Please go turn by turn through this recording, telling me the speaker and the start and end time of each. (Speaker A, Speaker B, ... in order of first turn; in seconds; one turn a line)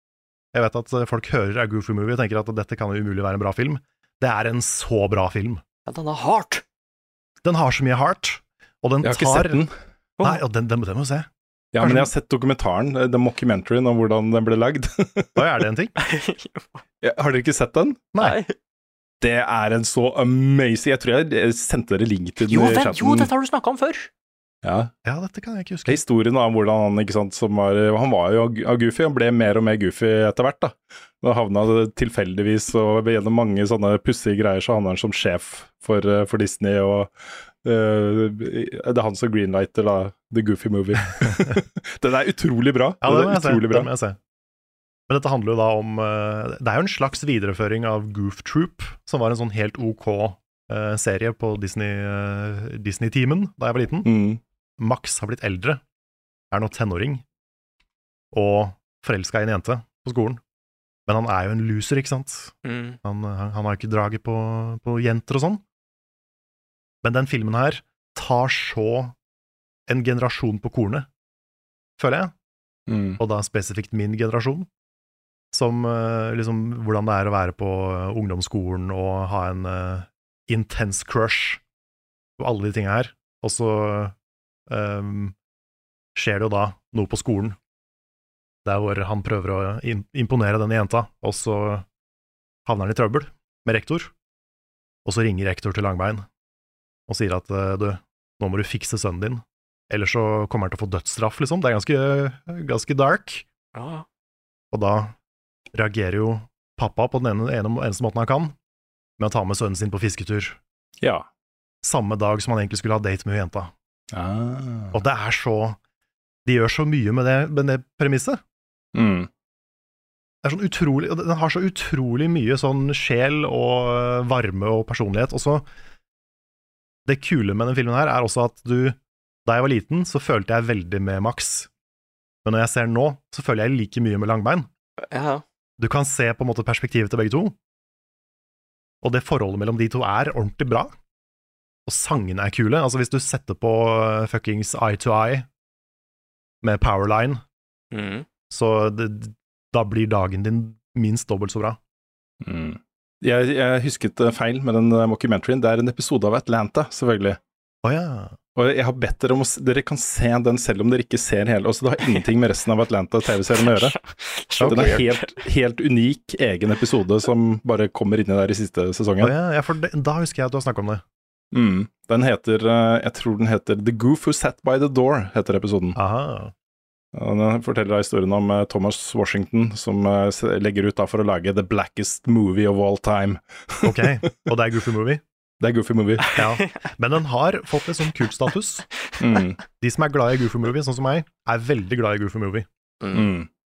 Speaker A: 0.5-5.6
Speaker B: 5.9-6.6
Speaker A: 7.4-9.7
Speaker C: 9.0-9.7
Speaker A: 10.2-11.3
Speaker C: 11.7-15.6
Speaker A: 11.8-12.1
Speaker A: 15.3-15.9
Speaker B: 16.0-16.8
Speaker C: 17.0-18.1
Speaker A: 18.1-18.4
Speaker B: 18.2-18.5
Speaker C: 19.2-23.3
Speaker B: 22.4-24.1
Speaker C: 24.6-24.9
Speaker A: 25.1-26.0
Speaker C: 25.9-43.9
Speaker A: 43.0-44.2
Speaker A: 45.1-54.1
Speaker C: 54.0-54.4
Speaker A: 54.8-55.8
Speaker A: 56.5-57.2
Speaker A: 58.3-60.4
Speaker A: 61.1-65.6
Speaker B: 62.6-63.0
Speaker A: 67.0-69.2
Speaker A: 69.9-71.1
Speaker A: 72.0-72.3
Speaker C: 72.9-73.2
Speaker A: 73.2-74.7
Speaker A: 75.5-81.6
Speaker A: 82.4-84.2
Speaker A: 84.7-85.3
Speaker A: 86.2-87.6
Speaker A: 88.7-91.9
Speaker A: 92.7-94.1
Speaker A: 95.0-96.3
Speaker A: 97.1-103.5
Speaker B: 103.8-104.1
Speaker A: 104.7-105.2
Speaker A: 105.7-108.5
Speaker A: 109.2-110.6
Speaker C: 111.0-111.3
Speaker A: 111.8-113.7
Speaker C: 114.1-115.0
Speaker A: 114.9-115.8
Speaker A: 116.5-118.4
Speaker C: 118.9-119.3
Speaker A: 120.4-125.7
Speaker A: 127.1-131.7
Speaker A: 132.4-134.7
Speaker B: 135.1-135.4
Speaker A: 135.8-137.6
Speaker A: 139.0-140.9
Speaker A: 141.9-145.5
Speaker A: 146.6-147.4
Speaker B: 147.9-148.3
Speaker A: 148.5-151.8
Speaker C: 152.4-157.4
Speaker A: 157.8-158.4
Speaker C: 158.6-164.0
Speaker B: 163.5-165.4
Speaker C: 164.6-169.3
Speaker A: 164.6-165.0
Speaker A: 169.2-171.0
Speaker C: 171.5-176.0
Speaker A: 175.9-176.5
Speaker C: 177.1-184.2
Speaker A: 183.8-185.2
Speaker C: 185.6-186.3
Speaker B: 186.2-186.7
Speaker A: 186.4-188.9
Speaker C: 189.2-189.6
Speaker A: 189.8-192.7
Speaker B: 193.0-193.3
Speaker C: 193.1-193.5